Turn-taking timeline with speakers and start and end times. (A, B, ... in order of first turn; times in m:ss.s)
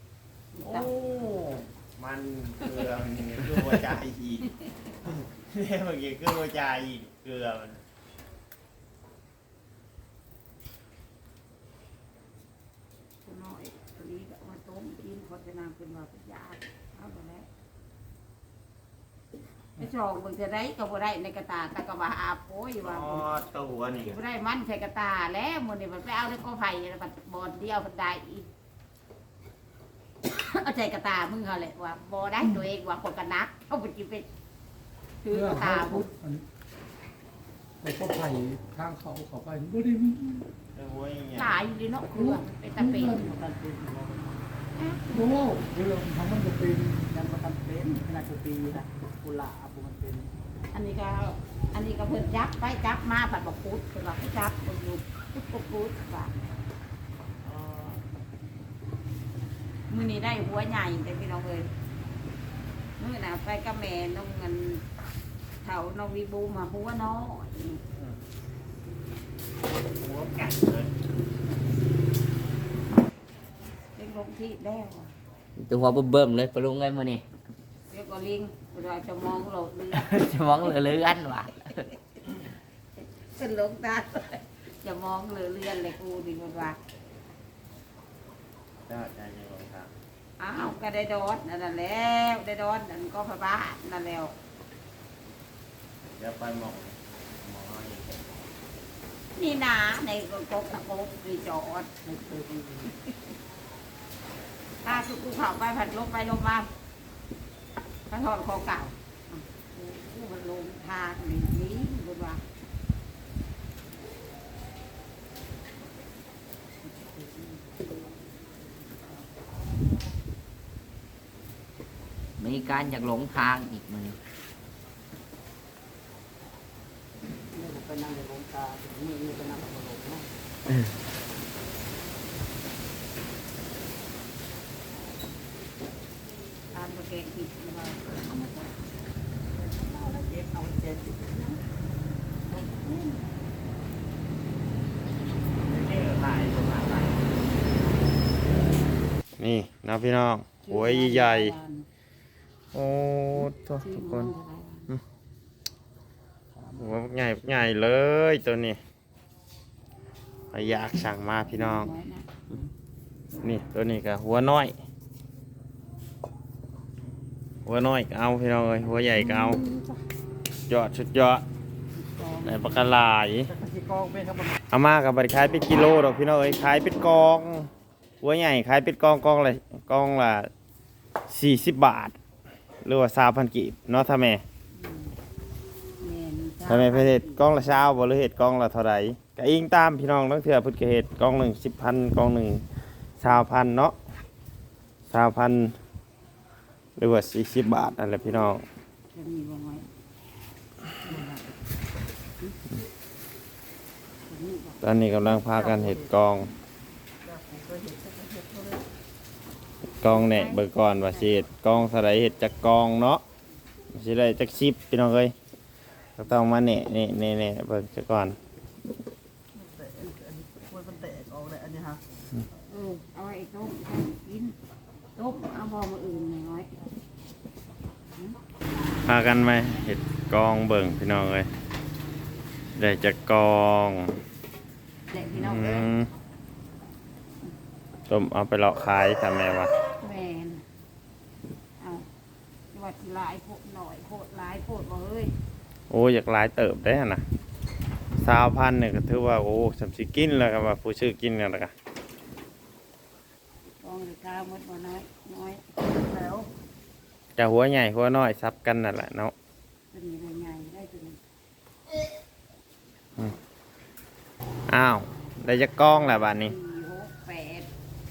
0:00.5-0:01.2 A
0:00.6-0:04.5 B
0:05.0-0:07.8 B
0:13.2-0:17.5 A
0:19.8-0:23.3 A
0:22.8-0:24.2 B
0:24.0-0:28.5 A
0:30.2-0:34.3 A
0:35.2-0:36.1 A
0:35.3-0:36.4 C
0:37.8-0:40.4 C
0:40.7-0:41.6 B
0:41.3-0:43.3 A
0:42.2-0:43.2 C
0:43.1-0:44.4 D
0:44.8-0:45.4 A
0:45.1-0:47.1 C
0:47.1-0:50.3 D
0:50.7-0:56.4 A
0:57.4-0:58.0 B
0:59.9-1:01.7 A
1:03.0-1:04.8 A
1:05.6-1:07.8 A
1:10.0-1:10.9 B
1:14.0-1:15.1 A
1:15.6-1:17.2 E
1:17.9-1:20.8 A
1:19.9-1:21.8 E
1:23.0-1:26.8 A
1:28.8-1:29.9 B
1:30.4-1:34.3 A
1:36.2-1:38.4 B
1:39.4-1:42.0 A
1:42.0-1:42.9 D
1:44.8-1:46.7 A
1:48.1-1:52.4 A
1:57.2-1:57.5 A
2:02.4-2:04.2 E
2:07.5-2:10.3 D
2:16.7-2:18.8 A
2:19.6-2:21.6 D
2:22.5-2:23.2 D
2:25.6-2:27.3 B
2:29.4-2:31.5 B
2:30.6-2:31.8 A
2:32.7-2:34.3 B
2:33.4-2:34.9 A
2:36.7-2:38.8 B
2:40.5-2:41.9 B
2:41.4-2:42.3 A
2:43.4-2:44.7 B
2:47.6-2:49.6 B
2:50.7-2:51.4 B
2:51.9-2:52.9 A
2:52.4-2:53.5 B
2:53.5-2:54.6 D
2:54.7-2:57.7 B
2:58.2-3:00.5 B
3:01.3-3:02.2 B
3:02.8-3:04.4 B
3:04.8-3:05.1 A
3:06.0-3:07.6 A
3:06.6-3:12.6 B
3:13.2-3:14.0 B
3:15.1-3:15.8 B
3:17.0-3:18.6 B
3:19.1-3:19.9 A
3:21.0-3:21.4 A
3:24.3-3:24.8 A
3:24.8-3:26.5 B
3:25.4-3:26.2 D
3:27.2-3:28.8 D
3:30.0-3:33.2 B
3:30.0-3:31.4 A
3:33.9-3:35.3 B
3:36.2-3:38.4 B
3:39.5-3:42.0 D
3:42.7-3:44.6 A
3:45.2-3:46.7 A
3:49.0-3:51.5 B
3:52.8-3:54.2 B
3:55.1-3:55.9 A
3:55.3-3:56.1 B
3:58.1-3:59.7 B
4:00.0-4:00.6 A
4:01.8-4:02.0 A
4:02.7-4:05.3 A
4:05.9-4:07.2 B
4:08.2-4:11.7 B
4:13.8-4:15.6 A
4:15.9-4:16.5 D
4:17.4-4:19.3 B
4:19.9-4:21.2 A
4:24.7-4:26.5 B
4:25.8-4:27.7 A